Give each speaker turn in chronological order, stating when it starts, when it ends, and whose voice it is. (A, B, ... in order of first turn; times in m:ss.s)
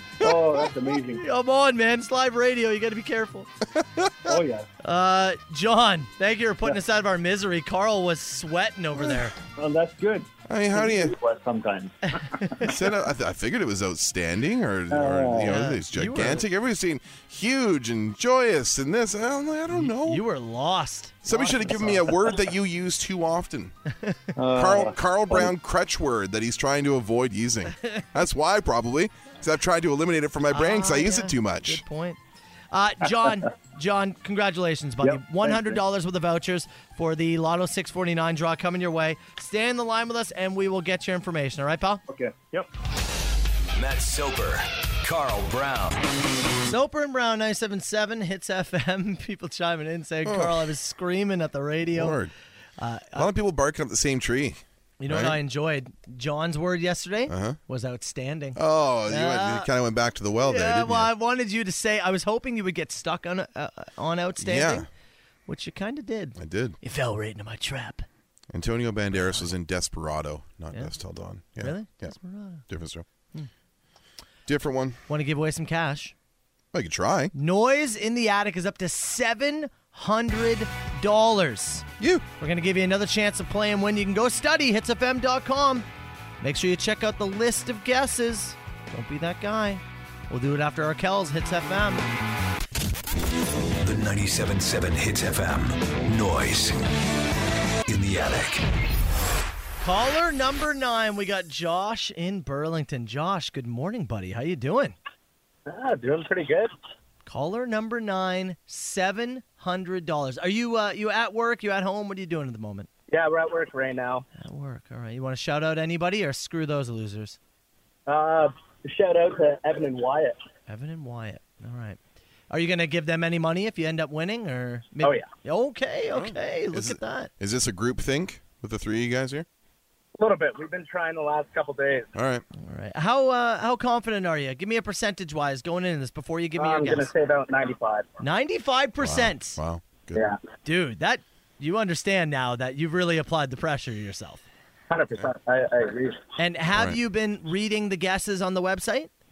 0:00.2-0:01.2 A
0:00.2-0:00.7 B
0:01.1-0:03.5 C
0:03.7-0:04.3 D
0:04.2-0:04.7 A
0:04.8-0:09.4 C
0:09.0-0:09.2 D
0:09.5-0:12.7 A
0:10.5-0:11.1 D
0:12.3-0:12.7 C
0:12.6-0:20.2 D
0:14.9-0:15.6 A
0:15.4-0:16.4 C
0:19.7-0:22.2 C
0:21.2-0:23.7 D
0:23.9-0:24.2 C
0:24.4-0:25.5 A
0:24.5-0:31.8 D
0:30.5-0:32.2 C
0:32.7-0:42.0 C
0:35.0-0:35.8 A
0:42.1-0:42.7 A
0:43.8-0:46.0 E
0:46.6-0:52.2 C
0:50.2-0:50.7 D
0:51.9-0:52.3 D
0:52.8-0:53.3 C
0:53.1-0:55.4 D
0:55.0-0:59.7 C
0:57.3-0:57.6 D
0:58.6-1:01.1 D
1:00.4-1:04.9 C
1:04.4-1:04.9 D
1:05.5-1:08.0 C
1:06.4-1:06.8 D
1:08.5-1:12.2 D
1:09.1-1:09.5 C
1:11.6-1:12.6 C
1:12.7-1:13.0 D
1:14.4-1:15.0 D
1:15.1-1:16.1 C
1:16.7-1:17.3 D
1:17.3-1:21.9 C
1:22.0-1:22.2 D
1:22.4-1:25.8 C
1:26.4-1:32.0 C
1:33.8-1:36.8 E
1:37.8-1:38.6 E
1:39.8-1:45.0 C
1:45.7-1:46.7 B
1:47.2-1:52.9 C
1:53.1-1:54.2 B
1:54.4-1:57.4 C
1:58.1-2:00.4 B
2:00.7-2:02.0 C
2:02.5-2:07.3 C
2:06.1-2:09.4 D
2:10.2-2:12.1 B
2:12.1-2:12.4 D
2:12.6-2:17.1 C
2:16.6-2:18.1 B
2:18.2-2:19.6 C
2:19.0-2:20.2 D
2:20.6-2:24.4 C
2:24.9-2:26.2 B
2:26.4-2:29.1 C
2:26.7-2:27.0 D